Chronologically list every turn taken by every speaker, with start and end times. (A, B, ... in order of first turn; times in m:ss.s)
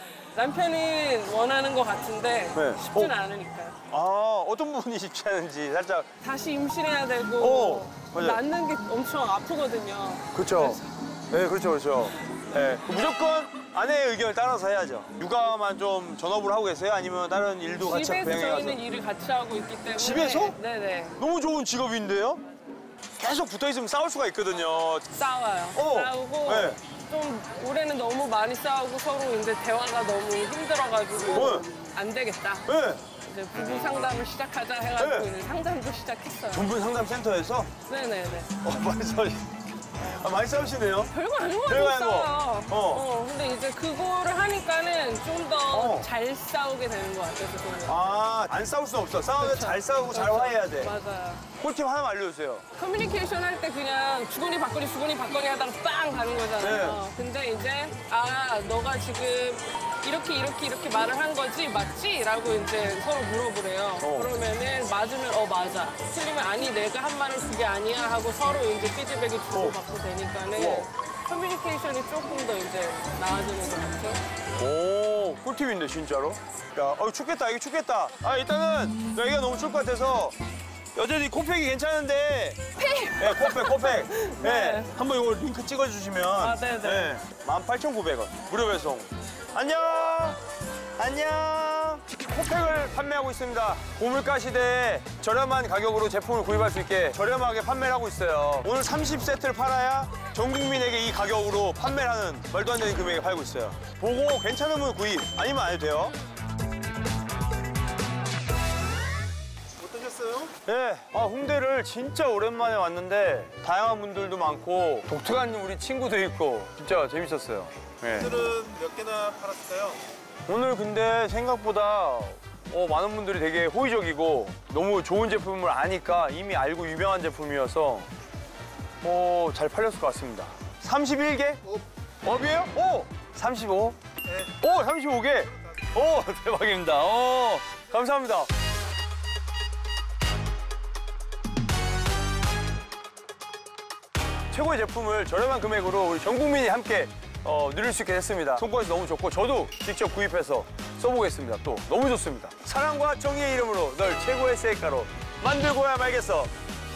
0:00.3-0:03.8 A
0:02.5-0:03.1 B
0:03.9-0:06.1 B
0:06.2-0:10.8 A
0:07.4-0:08.4 B
0:10.3-0:18.8 B
0:17.8-0:21.2 A
0:19.9-0:20.6 B
0:21.2-0:22.4 B
0:23.2-0:25.1 B
0:25.1-0:36.7 A
0:25.7-0:26.8 B
0:31.2-0:31.6 B
0:32.7-0:33.0 B
0:35.0-0:35.3 B
0:36.5-0:37.7 B
0:37.8-0:38.5 A
0:38.6-0:41.1 B
0:41.1-0:48.1 A
0:41.6-0:43.0 B
0:45.7-0:46.1 B
0:47.8-0:50.9 B
0:49.3-0:51.4 A
0:51.6-0:52.6 B
0:52.8-1:14.2 A
0:56.6-0:57.0 B
1:04.0-1:04.3 B
1:09.5-1:09.8 B
1:10.5-1:10.9 B
1:14.6-1:20.4 B
1:20.9-1:22.6 B
1:22.8-1:24.9 A
1:23.2-1:30.4 B
1:26.4-1:27.1 A
1:31.0-1:46.2 B
1:49.8-1:50.5 C
1:50.6-1:58.4 B
1:58.1-2:00.0 C
2:00.5-2:08.1 B
2:09.0-2:11.6 B
2:12.2-2:18.5 B
2:24.5-2:36.5 B